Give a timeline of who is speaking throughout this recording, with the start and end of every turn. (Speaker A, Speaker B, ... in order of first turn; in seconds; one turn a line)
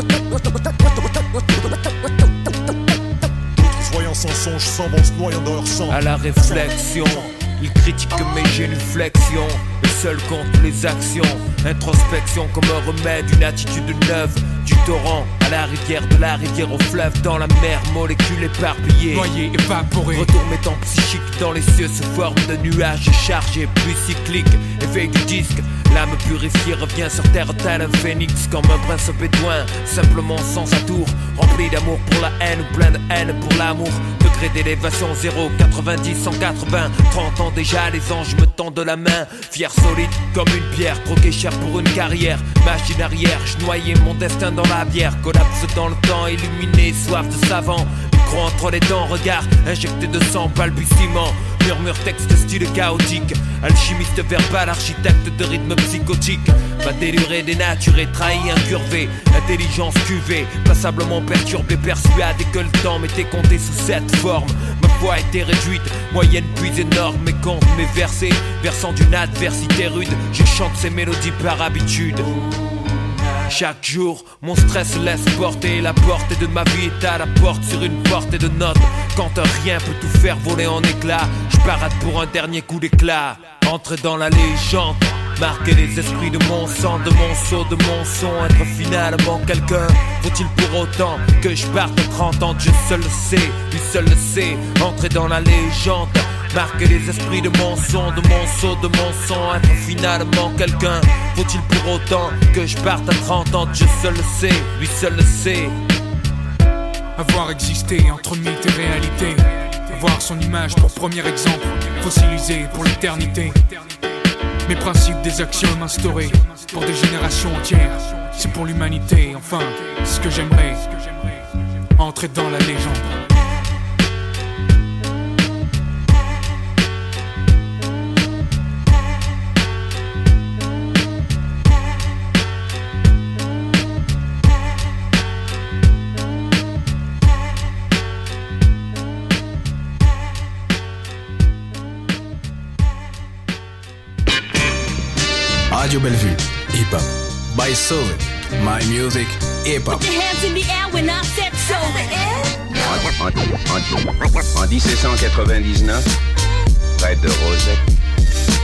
Speaker A: 3.6-5.8
Speaker B: 5.9-19.3
Speaker C: 19.1-20.3
Speaker B: 20.1-72.3
Speaker B: 73.5-105.7
Speaker C: 107.2-113.7
Speaker C: 114.7-121.3
Speaker C: 122.0-123.1
Speaker D: 145.7-150.1
Speaker E: 149.9-152.9
Speaker F: 152.8-156.1
Speaker F: 157.0-157.8